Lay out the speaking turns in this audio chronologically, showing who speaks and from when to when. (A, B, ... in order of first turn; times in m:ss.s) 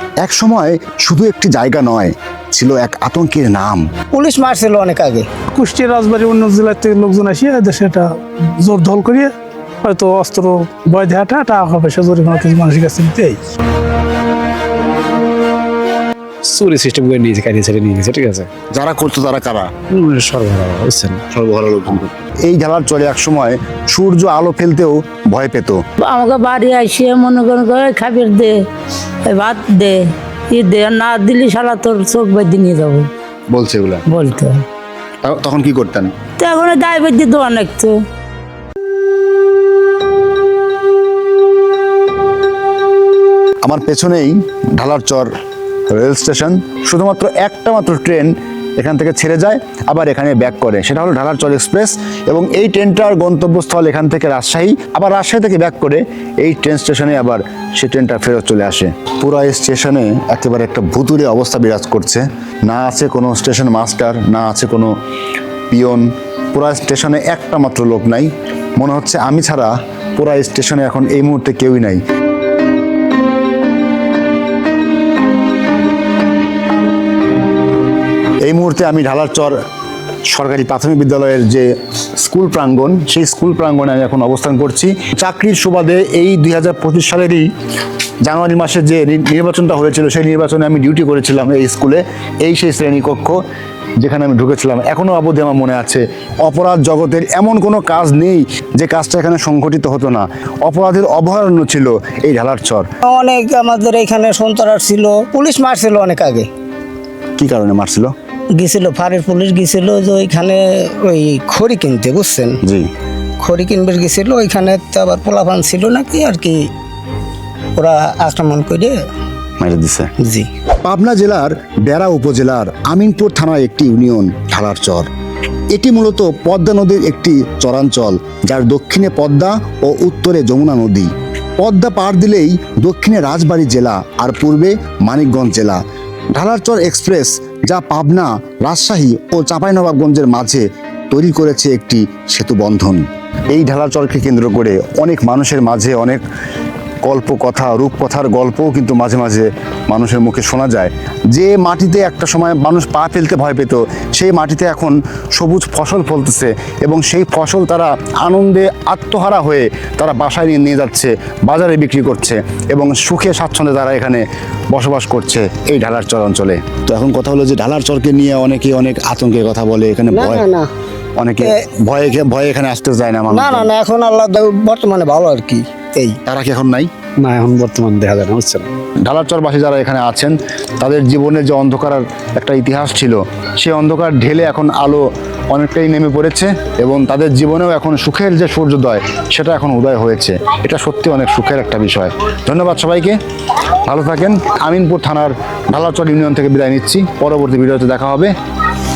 0:00.2-0:03.8 A
0:04.1-0:05.3 B
0:05.5-0:13.4 C
0:16.4-0:18.5 D
0:18.7-0:19.7 A
0:19.9-0:21.3 D
0:21.3-0:25.8 A
0:26.0-0:28.6 E
0:29.2-0:33.1 E
0:33.5-0:34.1 A
0:34.1-0:34.6 E
0:35.2-0:36.1 A
0:36.4-0:38.0 E
0:43.6-0:45.3 A
0:45.9-1:04.9 A
1:05.7-1:12.0 A
1:18.4-1:19.6 A
1:20.3-1:21.7 A
1:22.2-1:27.5 A
1:28.2-1:33.4 A
1:34.0-1:42.8 A
1:43.0-1:46.5 B
1:47.4-1:48.1 A
1:48.6-1:52.6 B
1:53.4-1:56.6 B
1:57.8-1:59.0 B
1:59.6-2:00.1 A
2:00.2-2:00.5 B
2:00.8-2:05.1 A
2:05.7-2:15.8 A
2:16.3-2:26.2 A
2:27.0-2:50.4 A
2:50.1-2:50.7 B
2:51.2-2:53.7 A
2:53.3-2:56.2 B
2:56.3-2:56.9 A
2:57.2-2:58.7 D
2:59.0-3:13.2 A
3:13.8-3:18.3 A